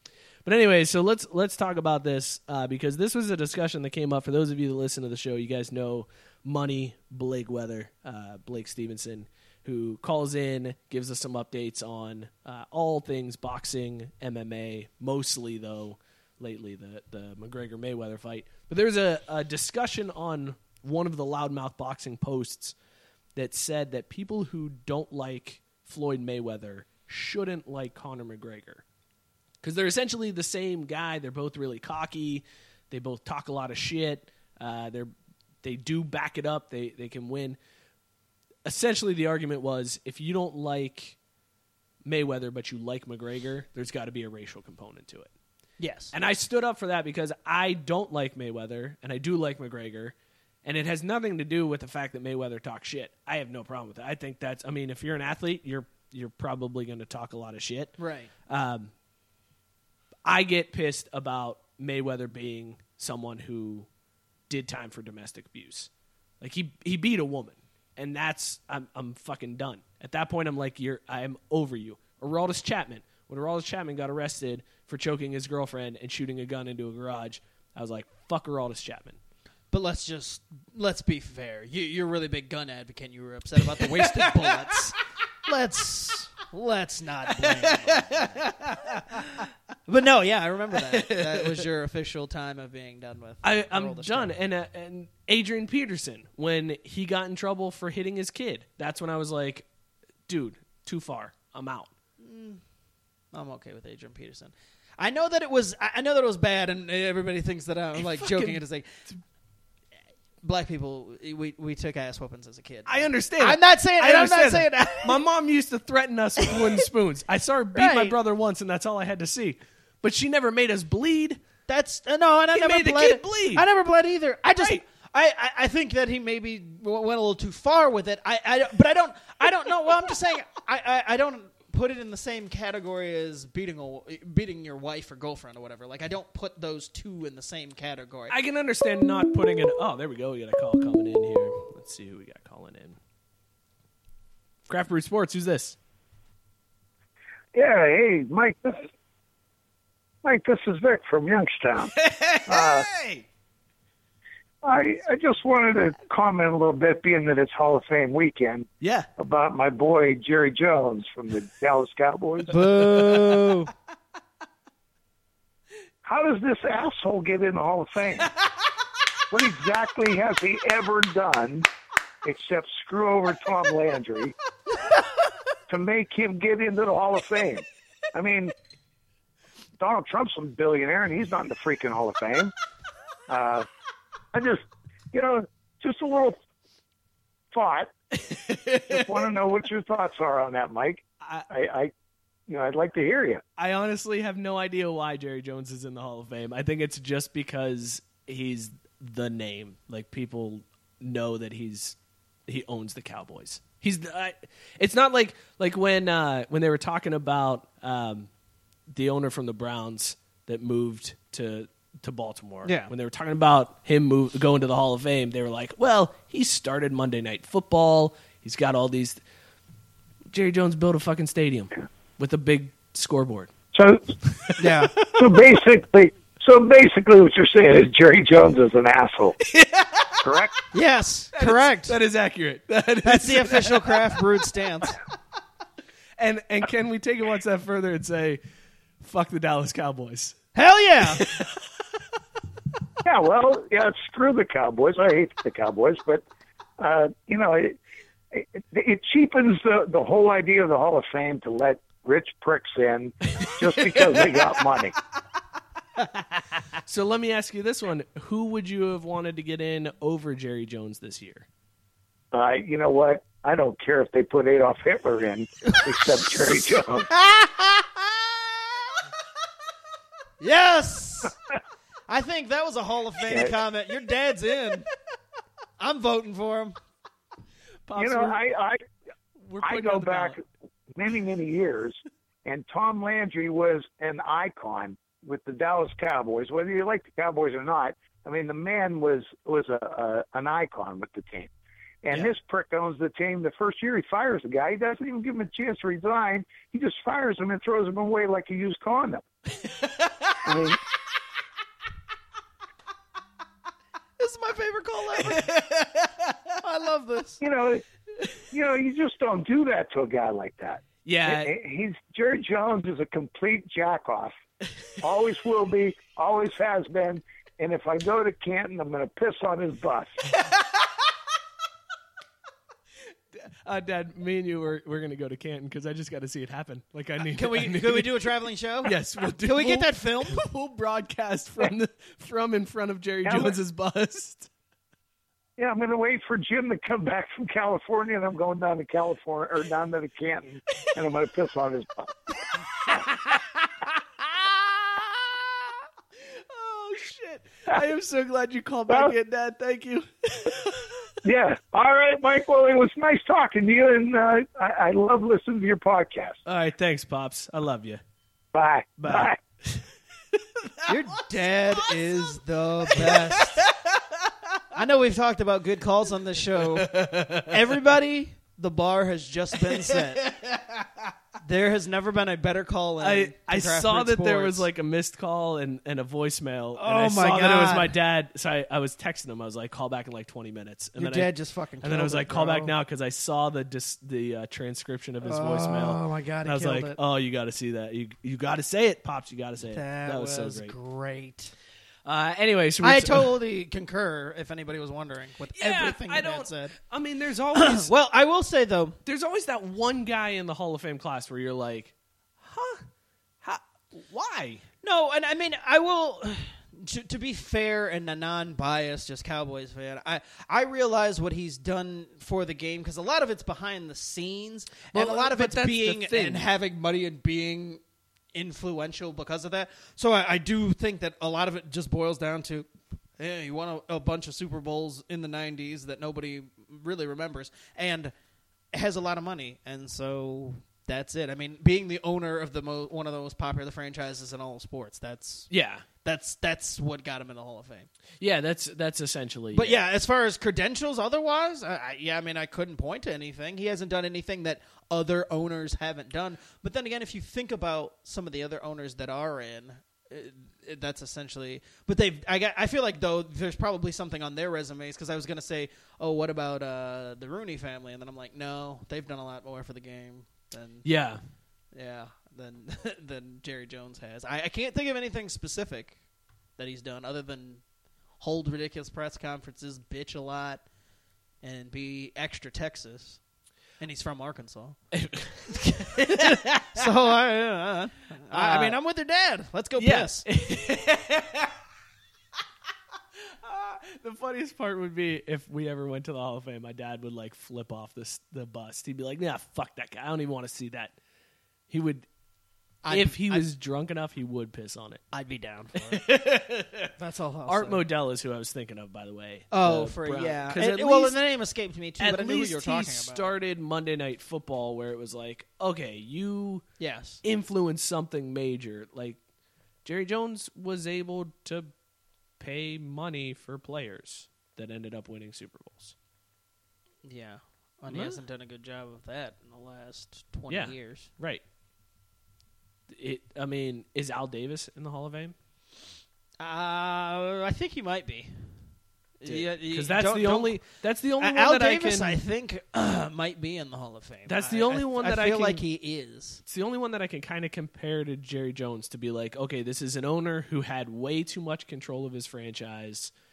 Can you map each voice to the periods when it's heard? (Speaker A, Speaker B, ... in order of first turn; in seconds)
Speaker A: 0.5-22.8, 23.4-28.8, 29.6-35.1, 35.6-37.6, 38.6-41.2, 42.0-45.3, 46.1-58.9, 60.2-63.9, 64.5-65.9, 66.4-79.2, 83.8-84.6, 87.4-89.4, 90.9-91.7, 93.4-99.7, 100.3-101.9, 108.0-109.2, 112.9-121.4, 122.5-123.7, 138.3-143.0, 144.7-145.8, 151.8-153.2, 158.8-159.1, 162.9-163.5, 188.2-189.1, 191.2-191.5, 193.6-202.0, 202.5-208.3, 208.9-219.2, 220.3-223.5, 224.3-225.4, 229.4-230.2, 231.3-234.2, 236.2-238.4, 239.0-240.4, 241.1-241.6, 253.4-254.4, 256.9-261.5, 277.9-278.4, 279.4-280.4, 299.7-300.5, 305.2-306.4, 311.1-311.5, 323.4-328.3, 328.8-334.5, 342.9-343.4, 346.4-351.1, 356.5-358.0, 359.0-360.4, 361.8-362.4, 362.9-364.0, 366.8-367.5, 369.6-370.9, 373.0-390.8, 392.1-393.4, 395.6-397.9, 399.1-402.9, 403.4-404.6, 414.9-416.5, 435.5-435.9, 438.2-439.8, 460.8-461.2, 474.9-476.9, 478.3-478.8, 479.8-481.5, 483.4-490.9, 491.7-492.1, 492.9-495.0, 495.8-496.9, 497.5-501.2, 502.0-506.7, 507.2-509.2, 509.9-511.7, 512.4-516.0, 517.9-518.2, 520.5-521.4, 522.9-525.4, 529.2-532.2, 534.3-535.6, 536.5-543.1
Speaker B: 45.8-46.1, 58.0-58.3, 79.7-88.5, 89.9-94.3, 102.2-102.6, 103.3-108.9, 110.4-115.2, 117.7-118.2, 121.7-138.4, 162.5-163.7, 212.6-212.9, 224.6-224.9, 230.7-231.9, 233.1-235.0, 240.6-241.2, 267.3-267.8, 270.4-271.3, 272.1-274.9, 275.8-276.8, 304.2-305.5, 306.6-307.4, 327.2-330.4, 360.9-363.6, 364.7-370.3, 371.4-374.7, 376.8-377.9, 381.0-382.7, 385.2-387.0, 389.7-391.5, 392.8-396.8, 397.6-399.0, 404.8-417.8, 418.3-422.7, 423.2-428.1, 428.7-435.5, 436.0-437.9, 439.5-460.9, 461.7-466.0, 466.6-467.6, 468.2-470.6, 471.4-473.2, 473.8-474.8, 475.5-480.2, 492.8-493.5, 495.1-496.1, 497.0-497.8, 499.5-503.3, 506.8-507.2, 517.0-521.1, 526.4-528.6, 529.2-530.6, 531.2-536.4
Speaker C: 147.6-148.9, 150.2-151.9, 152.5-152.9, 154.6-158.7, 159.2-162.5, 166.0-168.3, 169.3-171.7, 172.2-174.3, 175.7-178.5, 179.8-182.5, 183.3-183.7, 184.3-184.6, 185.1-186.4, 187.5-187.9, 188.9-191.9, 192.5-193.4, 223.7-224.2, 225.1-229.4, 230.2-230.5, 243.0-246.2, 246.8-247.8, 248.3-254.9, 262.3-267.1, 278.0-278.8, 279.6-280.4, 280.9-291.5, 292.0-299.2, 300.4-300.8, 307.4-307.8, 308.5-314.4, 315.0-320.2, 333.2-333.6, 335.6-342.1, 351.2-356.4, 358.5-359.4